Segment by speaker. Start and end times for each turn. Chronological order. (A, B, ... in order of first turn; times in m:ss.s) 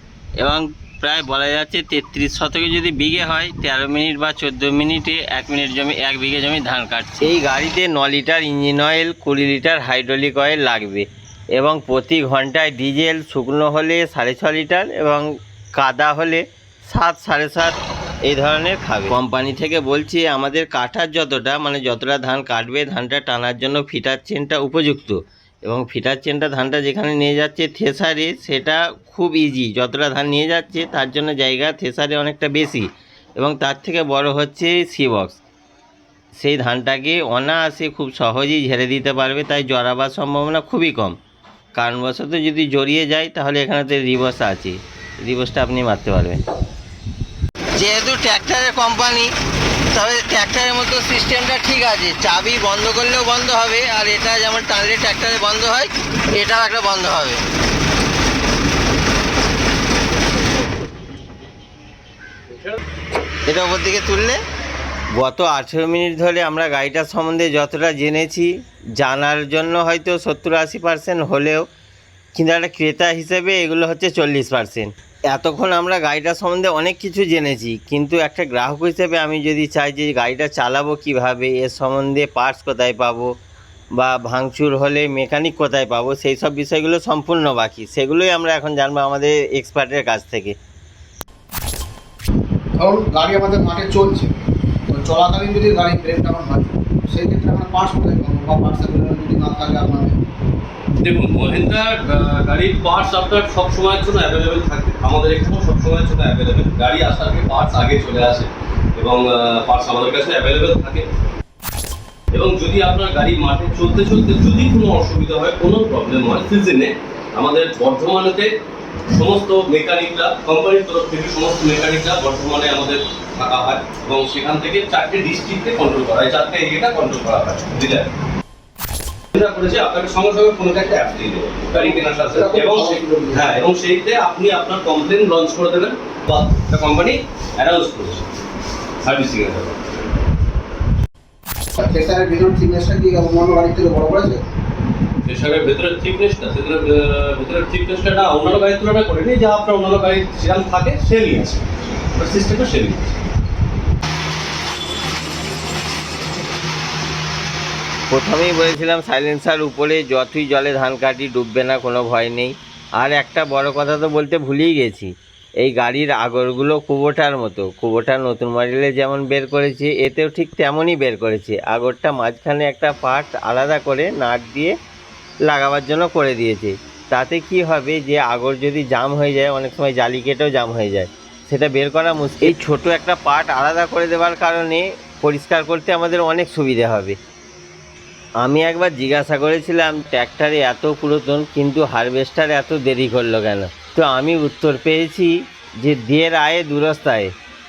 0:00.4-0:35.4 A
0:36.3-0:41.2 A
0:41.7-0:46.4 A
0:47.8-0:49.3 A
0:49.9-0:57.4 A
1:02.5-1:02.8 B
1:03.4-1:04.4 A
1:05.1-1:11.6 A
1:12.3-1:23.3 A
1:23.9-1:30.6 A
1:32.8-1:34.3 C
1:34.9-1:40.2 C
1:41.0-1:51.1 B
1:52.3-1:58.5 B
1:59.1-2:08.1 B
2:09.3-2:18.2 B
2:11.7-2:13.5 C
2:19.0-2:19.8 B
2:21.8-2:24.4 C
2:25.2-2:33.1 B
2:38.1-2:54.7 A
2:55.4-3:07.2 A
3:08.4-3:17.3 A